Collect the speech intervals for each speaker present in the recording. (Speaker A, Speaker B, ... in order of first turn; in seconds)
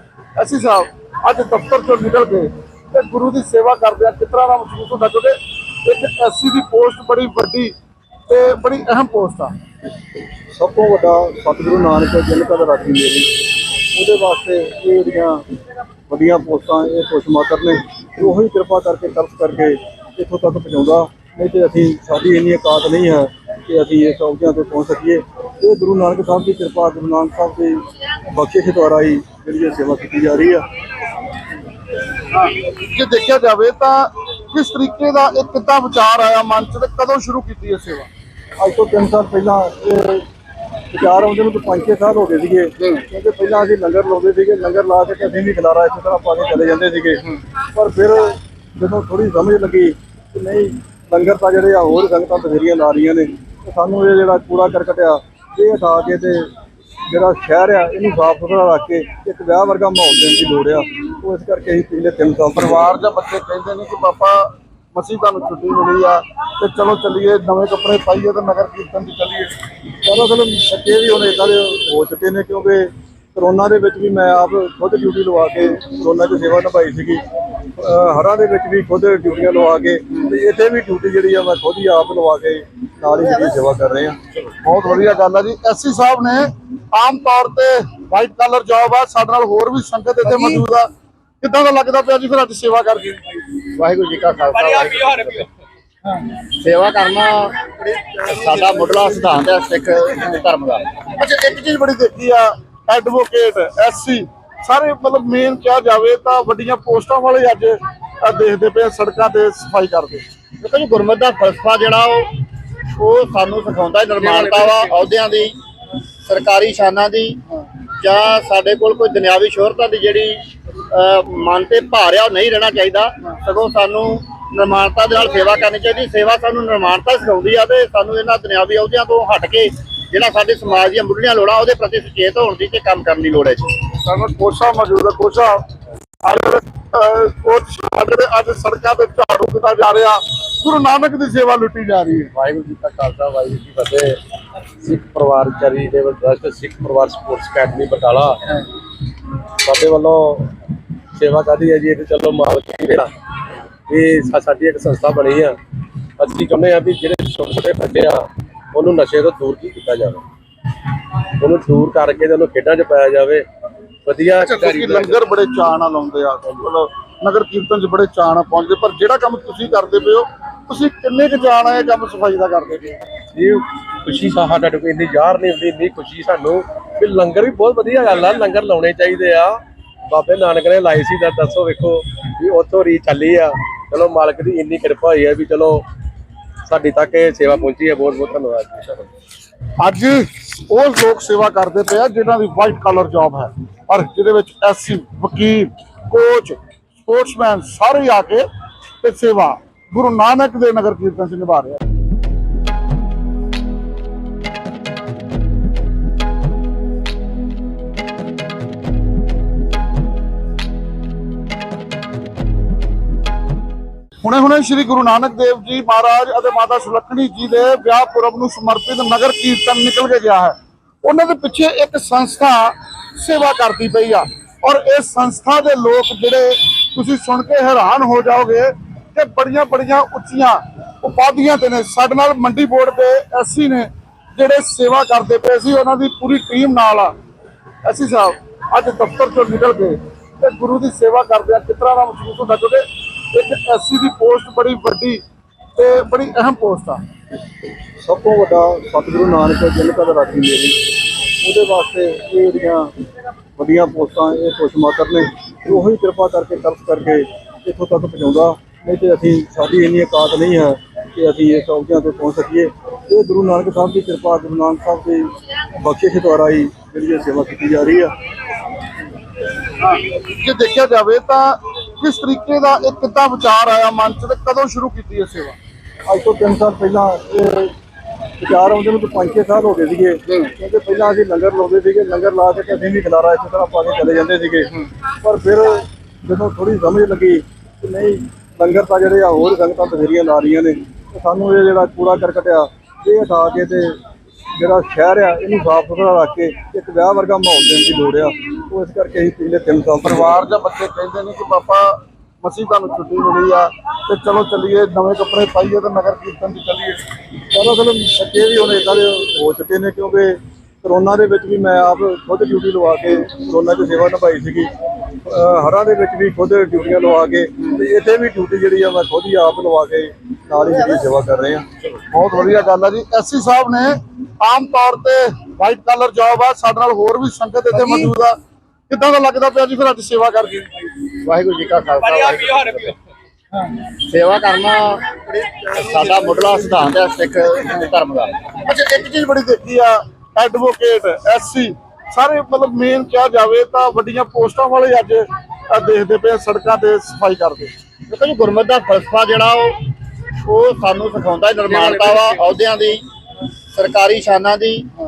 Speaker A: 0.4-7.7, 8.3-9.5, 32.3-38.1, 62.6-69.5, 84.6-90.9, 91.4-93.2, 101.1-110.2, 133.9-135.6, 136.2-142.3, 164.4-173.0, 189.8-198.5, 199.0-201.8, 214.2-237.1, 237.8-245.2, 245.8-247.0, 269.8-275.6, 300.0-307.0, 322.1-328.4, 328.9-330.7, 338.6-347.7
Speaker B: 10.5-13.4, 13.9-15.5, 16.1-30.7, 38.6-40.3, 40.9-56.5, 57.1-63.0, 70.0-84.2, 248.0-250.8, 251.4-252.9, 253.6-268.1, 276.1-277.8, 278.4-294.0, 294.6-300.4, 307.5-321.7
Speaker C: 93.7-95.5, 96.1-100.9, 110.6-112.3, 112.9-115.6, 116.2-117.5, 118.0-133.8, 331.1-333.0, 333.6-338.4, 348.1-349.9, 350.4-353.0, 353.7-354.9
Speaker D: 142.3-144.2, 144.8-148.7, 149.6-150.5, 151.1-153.1, 153.9-155.6, 156.2-160.2, 161.4-163.5, 164.1-165.2, 173.3-185.8, 186.7-189.1